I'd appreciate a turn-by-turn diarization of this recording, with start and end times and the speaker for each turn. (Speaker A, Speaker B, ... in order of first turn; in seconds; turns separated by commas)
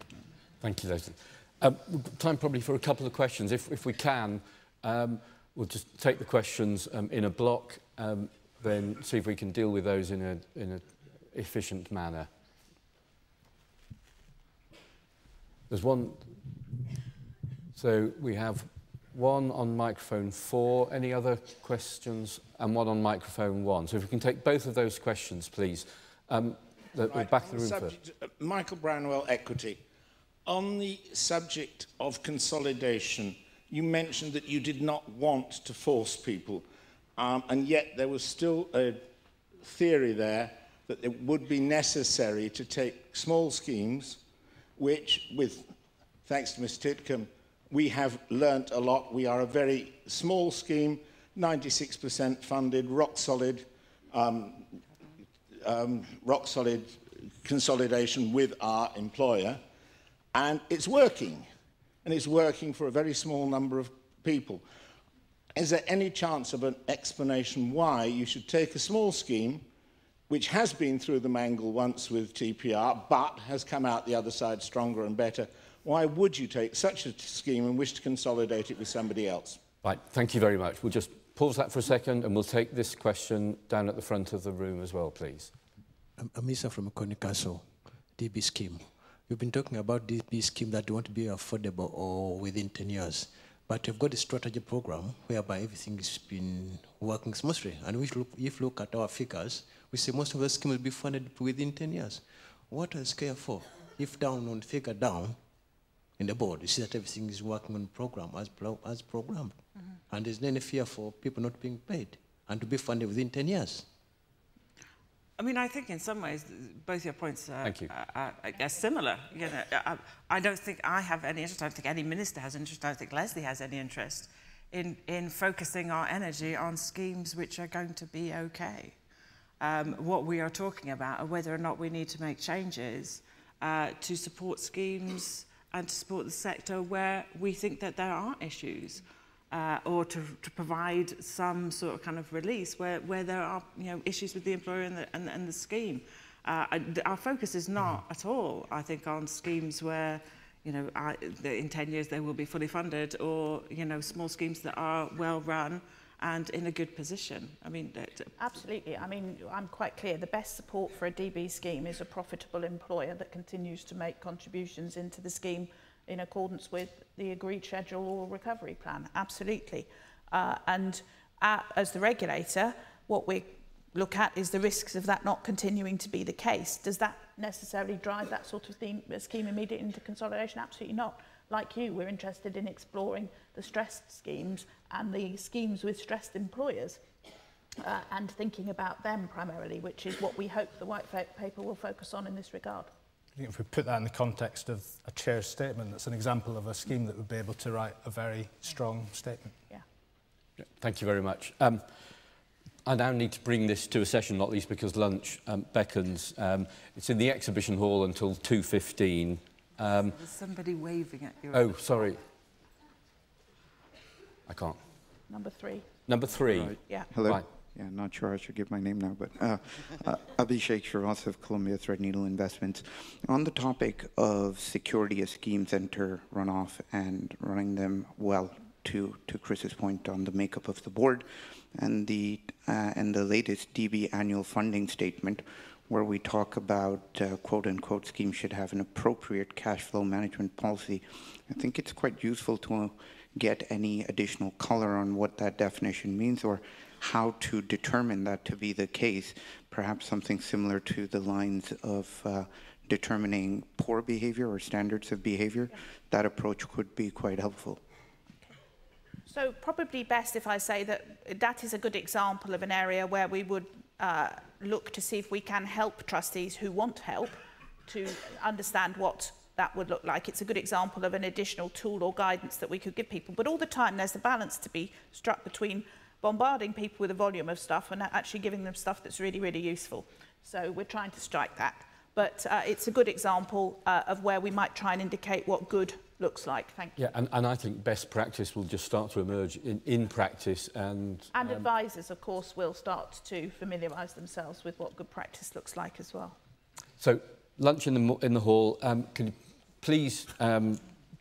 Speaker A: 0.6-12.3, Speaker A: 15.7-16.4, Speaker A: 17.8-28.0, Speaker B: 27.0-29.8, Speaker B: 30.4-39.0, Speaker B: 39.6-44.2, Speaker B: 44.8-45.7, Speaker B: 46.2-54.7, Speaker B: 55.6-59.6, Speaker B: 60.3-61.5, Speaker B: 62.0-64.7, Speaker B: 65.5-69.7, Speaker B: 70.3-79.6, Speaker A: 79.8-85.5, Speaker C: 86.2-105.4, Speaker C: 106.2-109.6, Speaker C: 110.1-113.9, Speaker D: 115.4-129.0, Speaker A: 117.6-117.9, Speaker D: 129.6-158.3, Speaker E: 158.4-187.0, Speaker E: 187.8-192.9, Speaker F: 193.4-199.6, Speaker A: 200.6-201.9, Speaker A: 202.8-210.2, Speaker D: 210.0-212.1, Speaker A: 211.5-212.2, Speaker A: 214.5-214.8, Speaker E: 215.3-215.9, Speaker A: 216.1-217.4, Speaker G: 216.5-257.8, Speaker E: 259.3-287.0, Speaker A: 287.0-291.7, Speaker E: 291.3-296.4, Speaker A: 297.0-300.8